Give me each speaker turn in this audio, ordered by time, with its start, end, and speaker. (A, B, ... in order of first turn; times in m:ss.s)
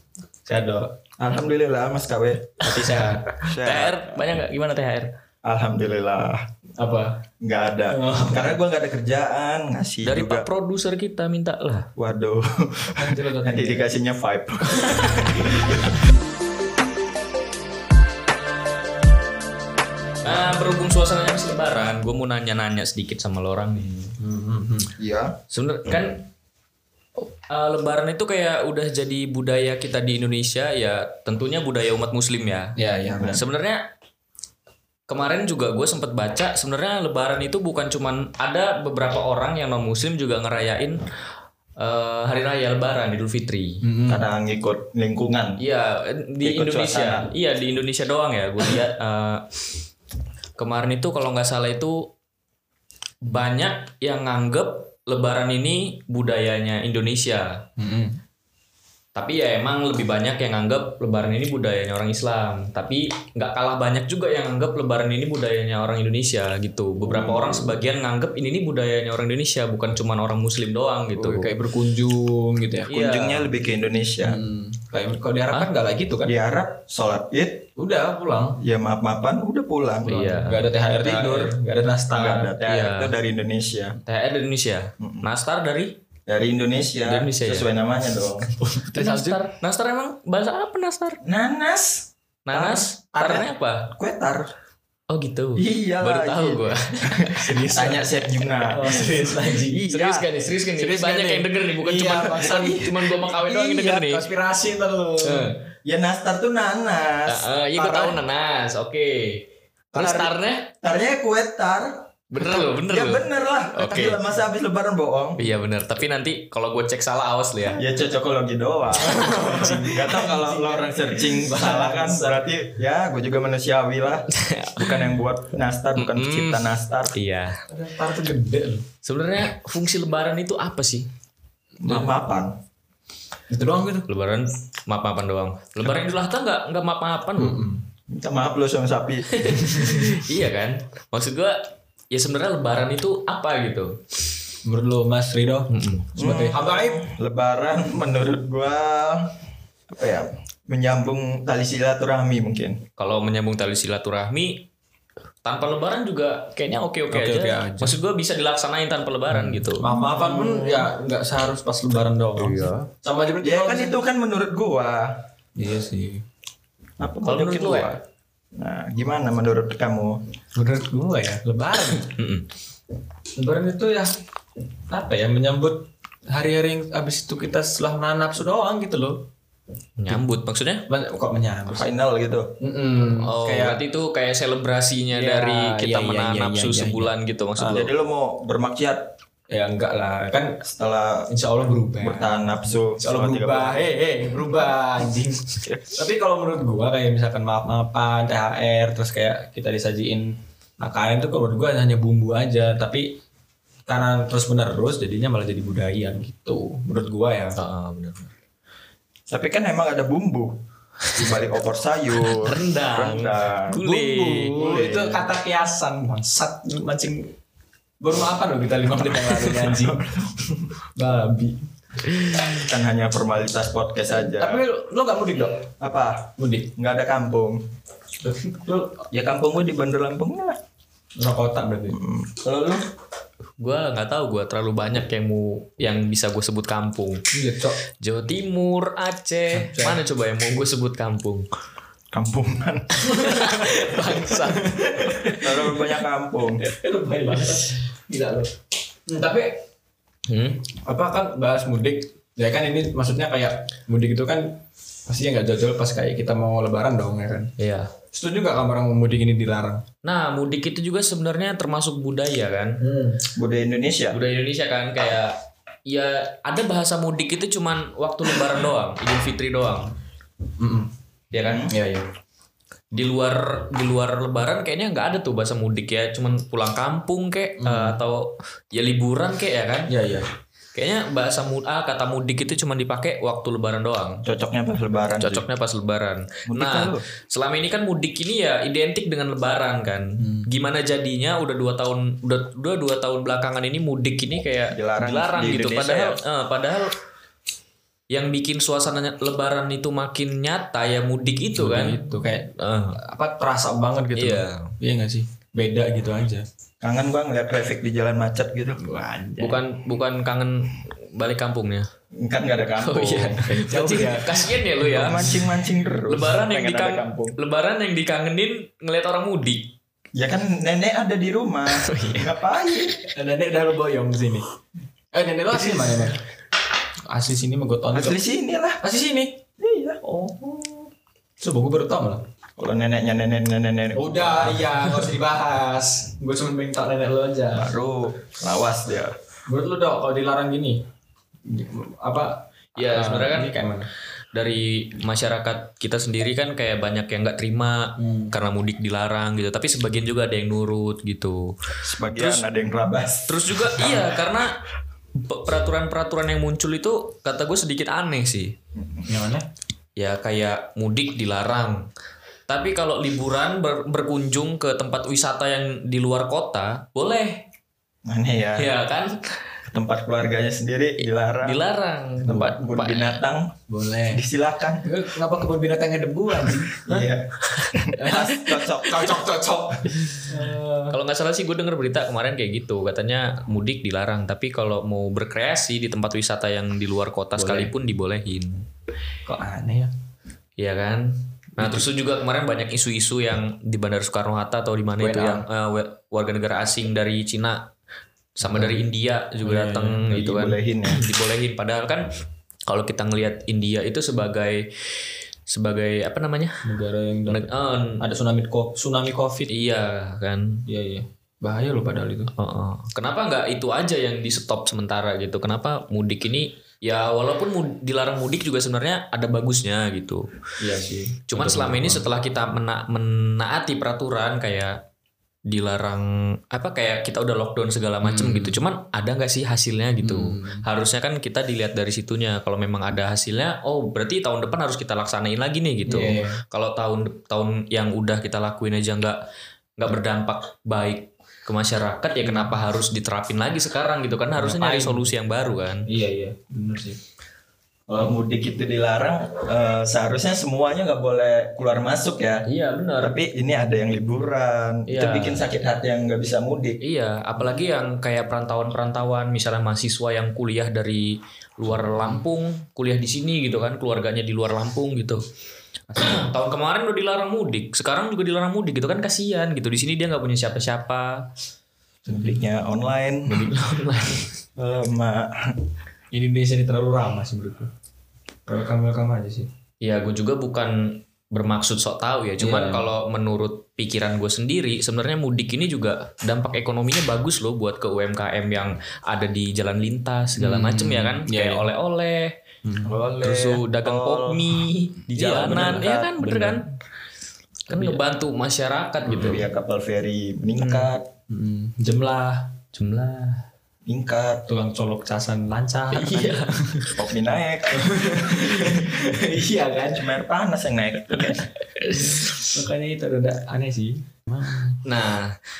0:00.4-0:01.0 A
0:01.2-0:04.1 B
0:02.6-0:03.3 A
0:03.4-0:05.1 C
0:05.4-0:06.5 B
0:06.8-0:07.2 A
0:07.4-0:10.5 B
0:07.9-0:08.6 A
0:10.0-0:11.9 C
0:12.0-0:15.9 B
0:12.9-0:13.9 A
0:14.9-0:15.3 C
0:20.2-0:24.1 C
0:24.2-0:24.9 A
0:25.0-0:25.4 B
0:25.5-0:26.2 C
0:27.5-0:33.8 C
0:32.8-0:33.4 A
0:35.1-0:41.0 C
0:41.8-0:43.8 C
0:43.8-0:44.3 A
0:44.1-0:45.6 B
0:45.6-0:49.4 C
0:46.4-0:47.3 B
0:50.6-0:52.1 C
0:53.2-0:57.6 C
0:57.8-0:58.2 A
0:59.1-1:11.5 C
1:07.0-1:07.8 B
1:11.1-1:12.9 A
1:12.9-1:13.5 C
1:12.9-1:14.4 B
1:14.2-1:16.3 A
1:16.2-1:17.7 B
1:17.8-1:18.6 A
1:18.6-1:20.2 B
1:20.0-1:20.7 C
1:20.1-1:22.6 A
1:21.0-1:21.6 B
1:22.1-1:24.0 B
1:22.6-1:23.1 C
1:24.0-1:25.9 C
1:25.0-1:25.3 B
1:26.3-1:28.5 B
1:27.0-1:27.7 C
1:28.6-1:29.5 A
1:28.9-1:31.2 C
1:31.2-1:34.5 B
1:32.4-1:33.9 C
1:35.1-1:37.4 C
1:35.6-1:39.2 B
1:37.3-1:38.1 A
1:38.6-1:40.0 A
1:39.8-1:40.3 B
1:39.8-1:44.2 C
1:40.7-1:45.5 A
1:41.9-1:43.2 B
1:45.2-1:45.5 C
1:45.8-1:48.2 B
1:47.3-1:50.7 C
1:49.9-1:55.4 B
1:52.3-1:54.2 C
1:55.4-1:57.8 C
1:57.7-2:07.2 B
1:59.0-2:02.5 A
2:04.3-2:05.2 C
2:06.0-2:07.6 C
2:07.7-2:08.8 A
2:09.0-2:11.1 C
2:11.8-2:12.5 B
2:11.8-2:12.1 A
2:13.5-2:14.1 A
2:14.1-2:17.6 C
2:17.4-2:17.8 A
2:18.1-2:19.5 B
2:19.3-2:21.6 C
2:19.8-2:20.0 A
2:22.1-2:24.0 C
2:24.6-2:27.0 A
2:25.7-2:26.1 C
2:26.2-2:29.3 B
2:29.9-2:32.8 B
2:33.0-2:34.7 C
2:35.4-2:40.8 C
2:37.1-2:38.0 A
2:39.3-2:44.0 A
2:39.8-2:40.7 B
2:42.4-2:42.9 C
2:43.4-2:45.2 B
2:45.6-2:46.2 A
2:47.0-2:48.0 B
2:47.2-2:48.0 C
2:48.6-2:50.2 B
2:50.5-2:52.1 A
2:52.0-2:52.5 C
2:53.4-2:54.1 A
2:54.9-2:59.3 A
3:00.0-3:00.8 C
3:00.9-3:01.9 A
3:01.7-3:02.5 B
3:02.6-3:03.8 A
3:03.2-3:07.9 C
3:05.1-3:07.9 A
3:07.7-3:09.1 B
3:09.5-3:10.6 A
3:10.6-3:11.3 B
3:11.3-3:12.4 A
3:12.0-3:13.9 B
3:13.0-3:23.2 A
3:15.6-3:16.0 B
3:23.9-3:27.6 A
3:27.6-3:28.3 C
3:29.3-3:30.6 B
3:31.1-3:33.8 B
3:32.3-3:34.6 C
3:33.8-3:37.3 A
3:34.5-3:35.2 B
3:38.0-3:40.2 A
3:39.5-3:40.6 B
3:40.9-3:41.6 A
3:42.6-3:44.6 B
3:44.1-3:45.7 A
3:45.8-3:47.6 B
3:46.4-3:46.7 A
3:48.2-3:49.0 A
3:49.1-3:50.6 B
3:51.2-3:52.0 A
3:51.9-3:52.8 B
3:53.6-3:57.2 C
3:57.3-3:57.8 A
3:58.0-4:01.4 C
3:59.5-4:00.0 A
4:02.1-4:03.8 B
4:03.0-4:05.3 C
4:04.0-4:05.9 A
4:05.1-4:06.6 B
4:06.6-4:08.5 A
4:09.1-4:09.6 A
4:10.3-4:10.7 C
4:10.8-4:17.5 A
4:17.6-4:17.9 C
4:18.1-4:19.8 A
4:20.0-4:22.8 C
4:22.8-4:23.3 A
4:23.3-4:24.2 B
4:24.1-4:29.9 C
4:30.6-4:30.9 A
4:31.3-4:31.7 C
4:31.7-4:32.1 A
4:32.9-4:39.9 C
4:37.6-4:38.0 A
4:39.9-4:40.3 A
4:40.7-4:44.2 C
4:44.2-4:45.4 B
4:45.2-4:56.9 C
4:46.4-4:47.0 B
4:50.2-4:50.5 A
4:54.7-4:56.2 B
4:58.1-5:02.0 C
5:01.6-5:06.4 A
5:02.5-5:03.0 C
5:04.1-5:04.7 C
5:06.8-5:08.8 B
5:08.8-5:09.6 A
5:09.4-5:11.9 C
5:12.1-5:13.4 B
5:12.8-5:15.4 C
5:13.4-5:15.2 A
5:14.9-5:17.4 B
5:16.0-5:19.7 C
5:20.1-5:23.0 B
5:21.7-5:22.3 C
5:23.0-5:24.5 A
5:25.1-5:26.2 A
5:25.8-5:26.0 C
5:27.1-5:28.2 A
5:27.9-5:28.8 B
5:28.8-5:29.4 A
5:29.6-5:30.8 B
5:31.4-5:32.2 A
5:32.6-5:34.7 B
5:33.9-5:37.7 A
5:37.5-5:39.2 B
5:39.5-5:40.8 A
5:41.4-5:43.9 A
5:42.8-5:43.5 C
5:44.3-5:52.4 C
5:48.0-5:48.3 A
5:51.8-5:54.0 B
5:53.3-5:54.6 C
5:55.2-5:58.5 C
5:59.0-5:59.5 A
6:00.0-6:01.9 C
6:02.5-6:07.4 C
6:08.0-6:08.7 B
6:08.5-6:09.4 C
6:09.7-6:11.6 B
6:11.0-6:13.2 C
6:12.2-6:12.6 A
6:12.4-6:13.5 B
6:13.7-6:14.2 A
6:14.1-6:14.9 B
6:14.8-6:17.1 A
6:16.8-6:19.3 B
6:17.4-6:17.8 C
6:18.0-6:20.9 A
6:20.9-6:28.6 C
6:27.4-6:27.7 A
6:29.2-6:29.9 A
6:30.6-6:37.7 C
6:31.6-6:31.8 A
6:35.0-6:35.4 A
6:38.4-6:42.1 C
6:38.4-6:38.8 A
6:39.4-6:40.1 A
6:40.1-6:41.0 B
6:42.7-6:44.7 C
6:45.5-6:46.6 C
6:46.6-6:49.5 A
6:47.3-6:48.0 C
6:49.5-6:50.6 C
6:50.6-6:52.3 A
6:52.3-7:00.2 C
7:00.6-7:02.1 A
7:01.3-7:04.8 C
7:05.5-7:19.2 C
7:08.0-7:08.6 A
7:10.0-7:10.6 A
7:15.8-7:16.4 A
7:19.8-7:25.8 C
7:22.2-7:22.6 A
7:24.4-7:25.1 A
7:25.9-7:27.0 A
7:27.9-7:32.4 B
7:32.4-7:33.2 C
7:33.0-7:36.8 B
7:34.9-7:35.4 C
7:36.8-7:45.2 C
7:45.9-7:46.3 A
7:46.0-7:51.3 C
7:52.1-7:52.3 A
7:52.1-7:53.5 B
7:53.3-7:54.3 C
7:54.6-7:55.5 B
7:56.1-7:57.7 A
7:58.5-7:59.5 A
7:59.8-8:12.4 C
8:02.4-8:02.9 A
8:10.4-8:11.7 A
8:12.6-8:13.0 A
8:12.8-8:16.6 B
8:13.2-8:16.7 C
8:17.7-8:18.0 A
8:17.7-8:19.4 C
8:19.0-8:19.4 A
8:19.1-8:21.1 B
8:20.6-8:20.9 C
8:21.3-8:22.5 A
8:22.7-8:23.4 C
8:23.8-8:24.4 B
8:24.4-8:26.9 A
8:25.9-8:26.9 C
8:26.9-8:28.2 B
8:27.7-8:30.2 A
8:29.9-8:31.4 B
8:31.1-8:34.8 A
8:32.1-8:32.3 C
8:34.8-8:35.3 C